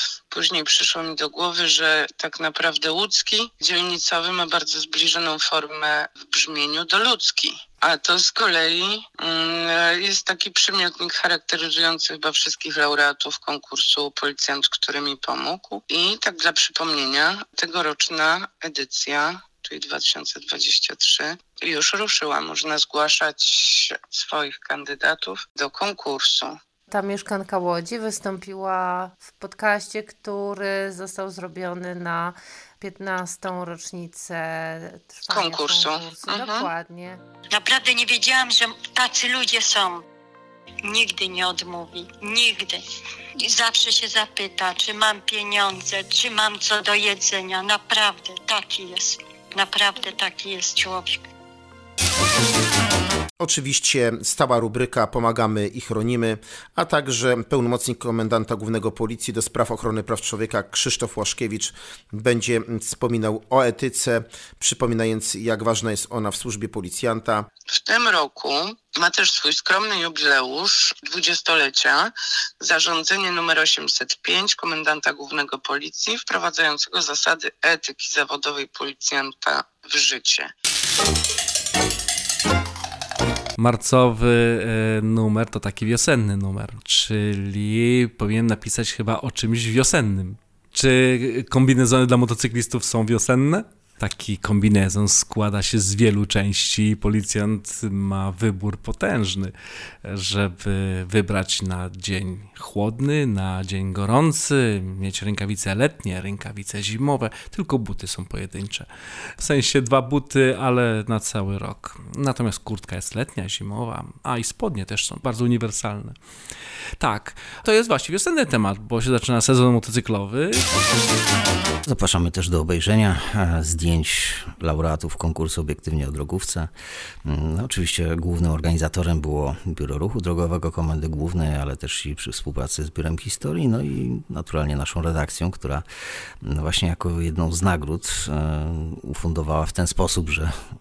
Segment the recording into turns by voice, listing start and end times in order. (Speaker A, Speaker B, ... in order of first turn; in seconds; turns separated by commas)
Speaker A: 0.3-26.6, Speaker B: 26.9-37.2, Speaker A: 35.3-36.7, Speaker C: 37.5-40.0, Speaker C: 40.8-42.8, Speaker C: 43.4-51.2, Speaker D: 53.4-67.5, Speaker A: 67.7-80.5, Speaker E: 83.6-99.5, Speaker E: 100.0-116.2, Speaker E: 117.0-120.6, Speaker F: 121.9-126.7, Speaker F: 127.2-135.9, Speaker F: 136.4-140.5